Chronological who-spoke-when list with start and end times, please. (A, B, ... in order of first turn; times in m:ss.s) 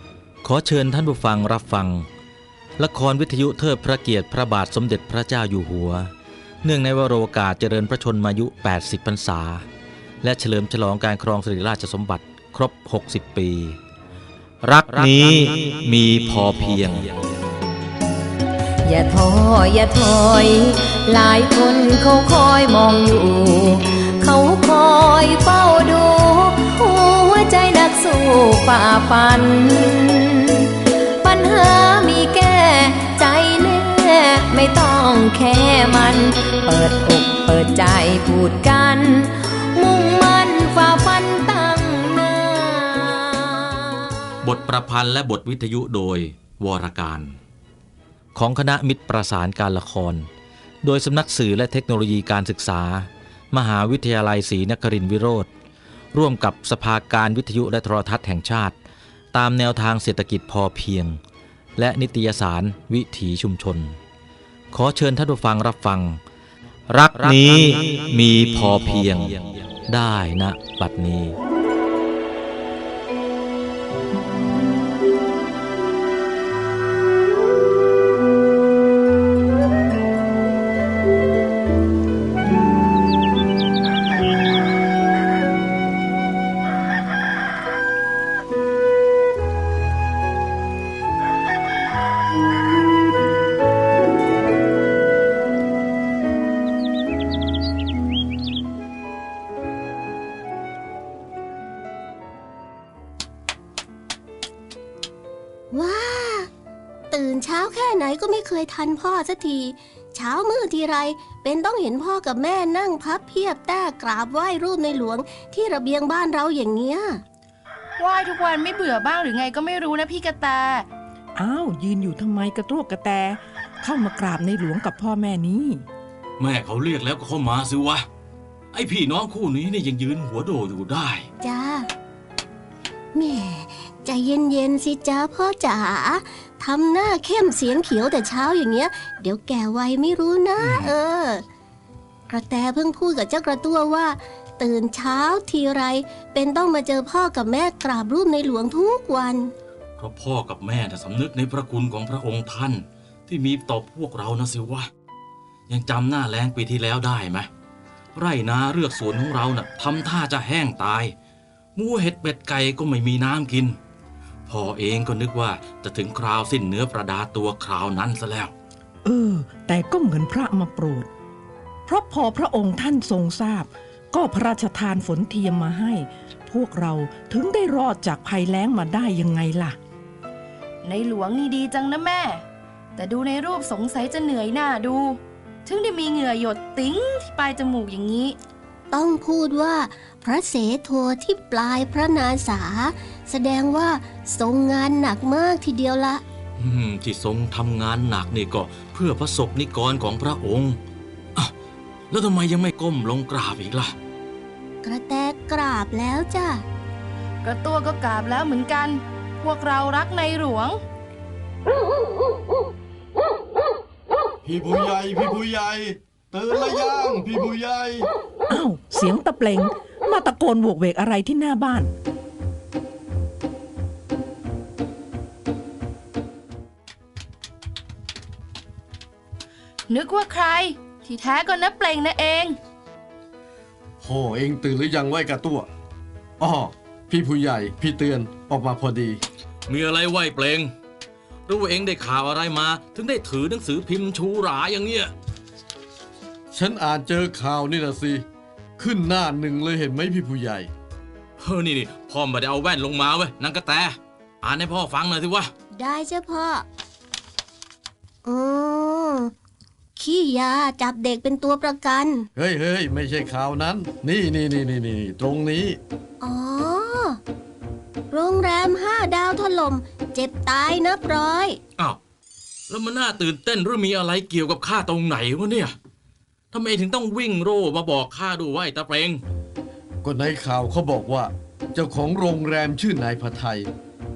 0:00.4-0:02.1 A
0:02.8-0:06.1 A
0:06.6-0:09.7 A
0:10.2-0:13.8 A
0:14.6-0:17.1 A
0:18.8-0:44.1 B
0:44.4-0:47.4 A
0:48.4-0:50.3 A
0:50.8-0:55.5 A
0:56.1-0:58.8 A
0:59.3-1:01.2 A
1:01.8-1:04.0 A
1:04.7-1:06.2 A
1:06.9-1:11.4 A
1:07.2-1:07.8 C
1:08.5-1:09.0 C
1:45.7-1:46.5 D
1:47.1-1:57.2 D
1:58.0-2:00.9 E
2:01.4-2:05.8 F
2:06.4-2:08.1 C
2:08.7-2:11.3 C
2:11.4-2:11.9 D
2:13.1-2:21.4 D
2:20.6-2:20.9 C
2:22.3-2:29.5 D
2:30.0-2:34.9 C
2:35.7-2:37.5 C
2:38.2-2:41.1 C
2:41.8-2:43.8 C
2:44.5-2:48.5 C
2:49.0-2:51.1 F
2:51.9-2:59.8 F
3:00.8-3:02.4 E
3:03.0-3:08.4 E
3:08.9-3:16.2 D
3:16.6-3:20.8 C
3:22.1-3:23.9 C
3:24.8-3:26.6 D
3:27.4-3:30.8 E
3:34.4-3:38.1 G
3:38.5-3:41.9 F
3:49.9-3:52.6 E
3:54.0-3:55.7 G
3:56.4-3:59.2 G
3:59.7-4:00.7 C
4:01.5-4:05.1 C
4:06.5-4:08.2 G
4:08.8-4:10.7 G
4:11.4-4:15.5 C
4:15.8-4:16.7 D
4:18.2-4:19.3 D
4:20.0-4:22.3 D
4:22.4-4:25.8 G
4:26.2-4:27.2 D
4:28.1-4:31.6 D
4:32.7-4:35.8 C
4:36.5-4:39.2 C
4:40.0-4:43.7 G